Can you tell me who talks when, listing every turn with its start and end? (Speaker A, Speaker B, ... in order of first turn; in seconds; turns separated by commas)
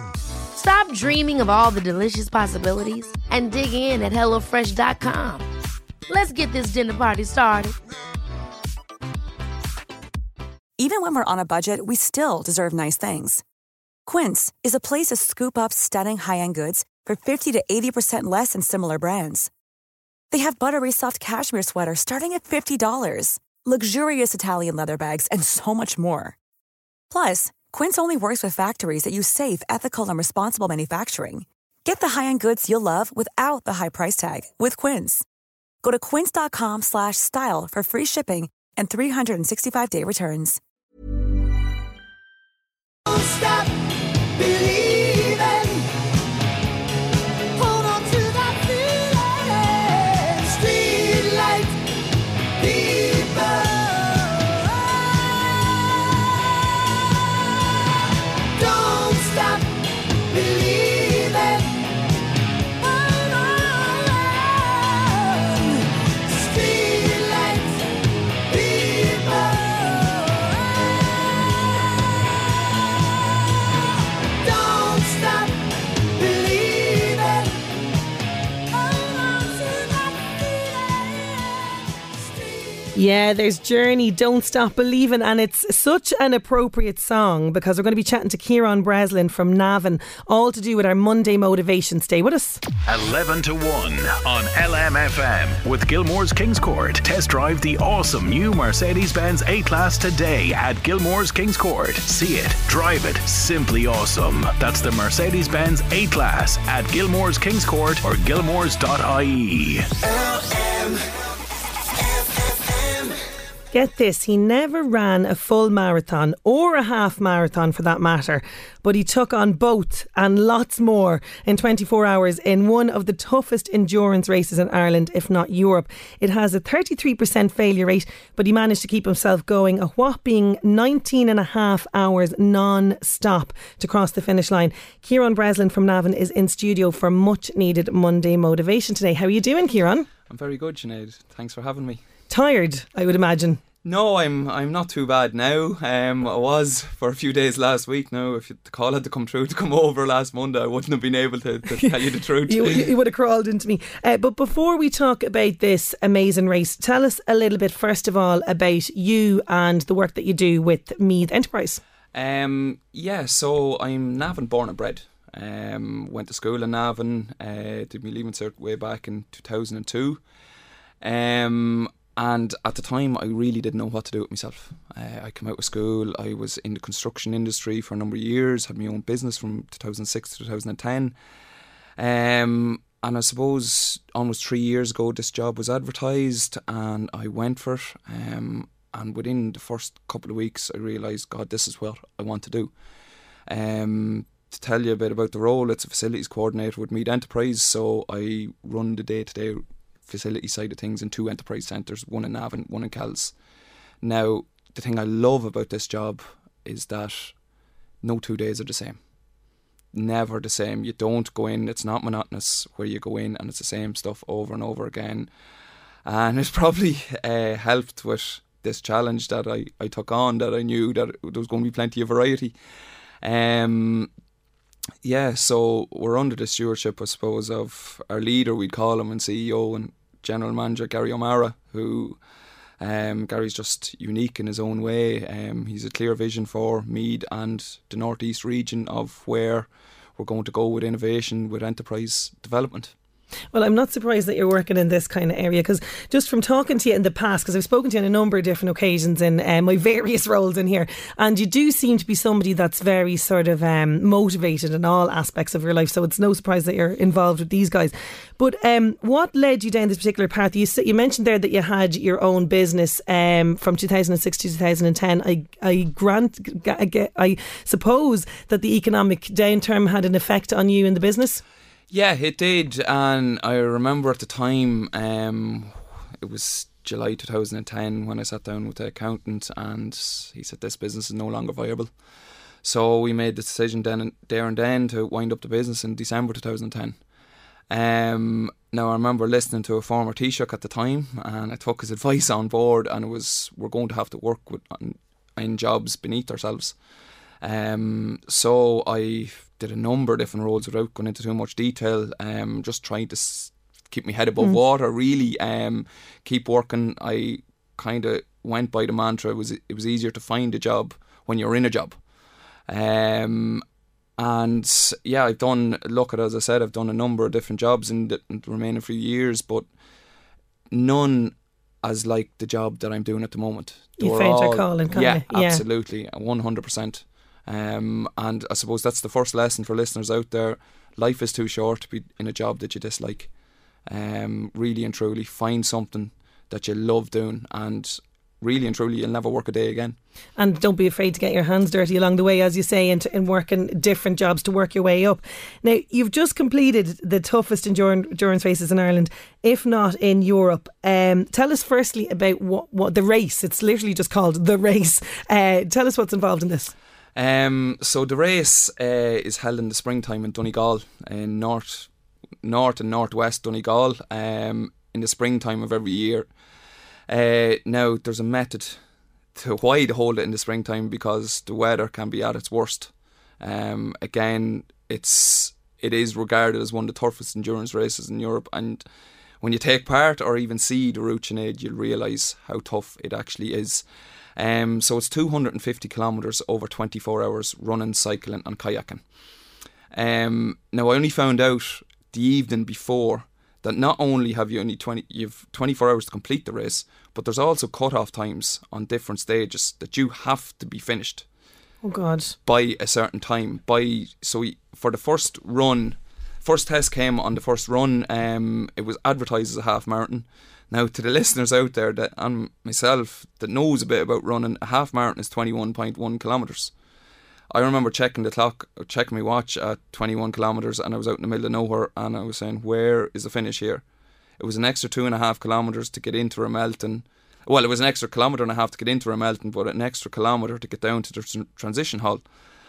Speaker A: 0.5-5.5, Speaker A: 6.1-7.7, Speaker B: 10.8-13.4, Speaker B: 14.1-19.5, Speaker B: 20.3-26.4, Speaker B: 27.1-35.2, Speaker B: 35.8-40.6, Speaker C: 43.1-43.7, Speaker C: 44.4-45.8, Speaker C: 47.6-51.8, Speaker C: 52.6-54.2, Speaker C: 58.6-61.8, Speaker C: 63.3-64.1, Speaker C: 66.3-67.9, Speaker C: 68.4-70.4, Speaker C: 74.4-77.6, Speaker D: 82.9-92.6, Speaker E: 92.9-109.9, Speaker D: 113.7-140.1, Speaker F: 140.3-142.0, Speaker D: 142.3-143.6, Speaker F: 143.8-152.9, Speaker D: 151.8-161.8, Speaker F: 162.1-170.2, Speaker F: 171.0-181.2, Speaker F: 182.0-192.7, Speaker F: 193.5-203.3, Speaker F: 204.0-207.3, Speaker F: 208.0-209.0, Speaker F: 209.9-215.3, Speaker F: 216.0-222.5, Speaker F: 223.2-224.1, Speaker F: 225.0-232.2, Speaker F: 232.8-239.7, Speaker F: 240.2-242.9, Speaker D: 243.5-271.4, Speaker F: 271.9-281.9, Speaker F: 282.6-287.0, Speaker F: 287.7-296.8, Speaker F: 297.4-312.0, Speaker F: 312.7-313.6, Speaker F: 314.2-319.6, Speaker F: 320.7-333.3, Speaker D: 324.0-325.6, Speaker F: 333.9-340.0, Speaker D: 340.4-356.7, Speaker F: 357.1-361.9, Speaker F: 362.4-366.3, Speaker F: 367.1-368.8, Speaker F: 369.3-378.8, Speaker F: 379.4-383.8, Speaker F: 384.4-389.0, Speaker F: 389.9-401.2, Speaker D: 401.8-402.4, Speaker F: 402.4-416.7, Speaker F: 417.5-423.8, Speaker F: 424.4-432.2